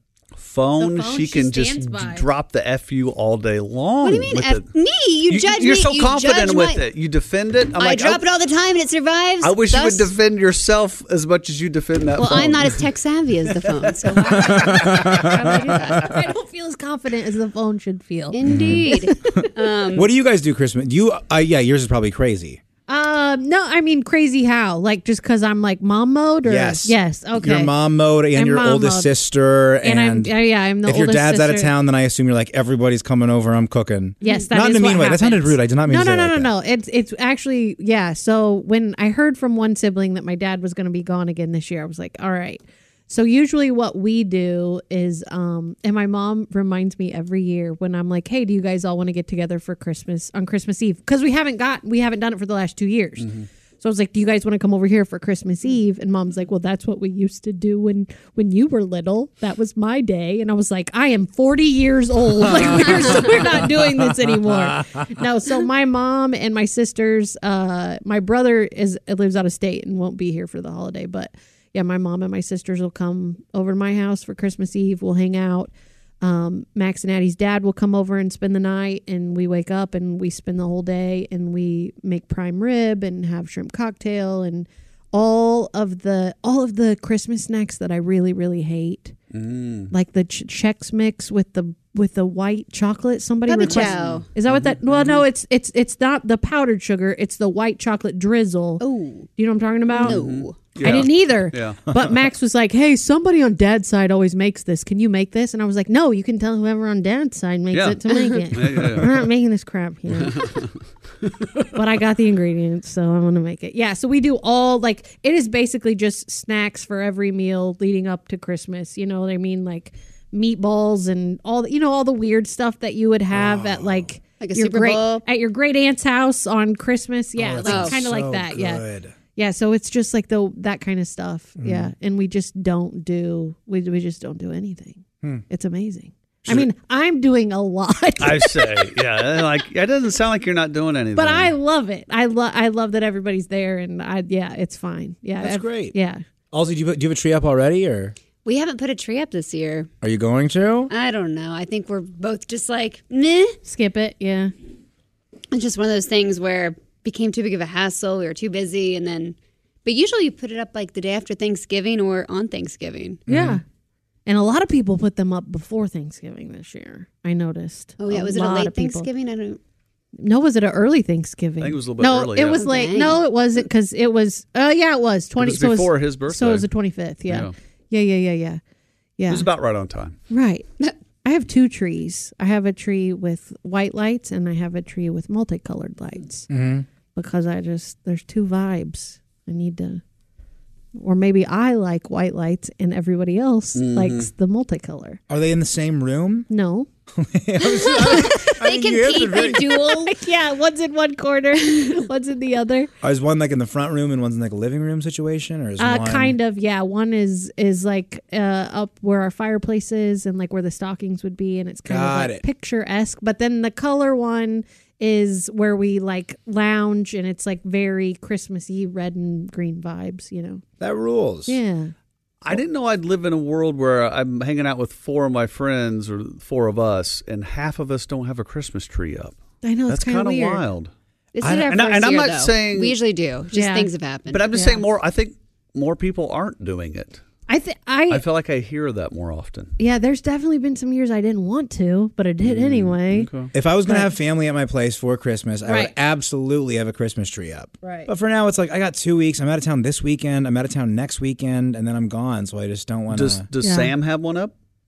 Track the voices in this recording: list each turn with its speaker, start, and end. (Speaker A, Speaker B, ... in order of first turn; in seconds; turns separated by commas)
Speaker A: 0.4-4.7, Speaker B: 0.8-2.3, Speaker C: 4.0-6.9, Speaker A: 5.3-8.2, Speaker C: 7.8-10.1, Speaker A: 9.4-14.5, Speaker C: 12.2-16.2, Speaker D: 14.4-15.3, Speaker B: 15.0-19.4, Speaker C: 18.3-20.1, Speaker D: 18.4-18.9, Speaker D: 19.9-22.6, Speaker B: 22.9-27.7, Speaker D: 26.5-36.5, Speaker B: 28.4-29.1, Speaker B: 29.8-31.7, Speaker B: 34.2-53.3, Speaker A: 53.2-53.5, Speaker B: 53.8-89.2, Speaker D: 62.7-65.1, Speaker C: 62.8-63.4, Speaker A: 89.3-89.9, Speaker B: 89.9-98.8, Speaker C: 93.5-94.3, Speaker A: 93.7-95.2, Speaker C: 98.8-99.3, Speaker B: 99.4-100.2, Speaker C: 99.9-100.7, Speaker A: 100.0-101.8, Speaker B: 100.8-110.5, Speaker A: 107.7-108.0, Speaker A: 108.5-109.3, Speaker A: 110.1-110.7, Speaker B: 111.7-128.8, Speaker D: 123.3-124.1, Speaker C: 124.4-125.2, Speaker D: 127.4-129.2, Speaker C: 127.6-128.0, Speaker B: 129.4-138.6, Speaker D: 131.6-131.9, Speaker A: 138.2-141.5, Speaker B: 141.2-146.2, Speaker D: 145.4-145.9, Speaker D: 146.5-148.2, Speaker C: 148.4-149.9, Speaker D: 150.0-150.9, Speaker C: 150.9-153.6, Speaker B: 153.6-154.5, Speaker C: 155.5-163.2, Speaker D: 163.3-163.6, Speaker B: 163.3-163.6, Speaker B: 164.3-169.1, Speaker C: 168.0-169.6, Speaker B: 170.2-178.6, Speaker A: 171.6-172.6, Speaker C: 172.4-173.2, Speaker A: 175.4-176.7, Speaker A: 177.3-177.5, Speaker B: 179.2-179.5, Speaker A: 179.3-180.2, Speaker B: 180.3-180.7, Speaker B: 181.2-186.5, Speaker D: 186.5-186.9, Speaker B: 187.2-190.0, Speaker B: 191.0-195.2, Speaker A: 193.8-194.3, Speaker D: 195.3-196.5, Speaker B: 196.5-196.9, Speaker D: 197.1-199.7, Speaker C: 197.8-200.2, Speaker B: 199.8-202.9, Speaker D: 203.0-206.4, Speaker B: 205.8-220.6, Speaker D: 211.9-212.4, Speaker D: 220.8-221.6, Speaker B: 221.5-221.9, Speaker A: 222.4-230.9, Speaker B: 229.6-230.6, Speaker C: 231.3-234.6, Speaker D: 231.4-231.7, Speaker A: 231.5-233.0, Speaker B: 233.5-233.9, Speaker A: 234.3-237.2, Speaker B: 234.5-234.8, Speaker B: 237.5-238.2, Speaker A: 238.1-239.7, Speaker B: 239.8-243.3, Speaker A: 242.4-243.5, Speaker D: 243.5-253.4, Speaker B: 245.7-245.9, Speaker B: 247.8-248.1, Speaker A: 253.1-254.5, Speaker B: 253.6-253.9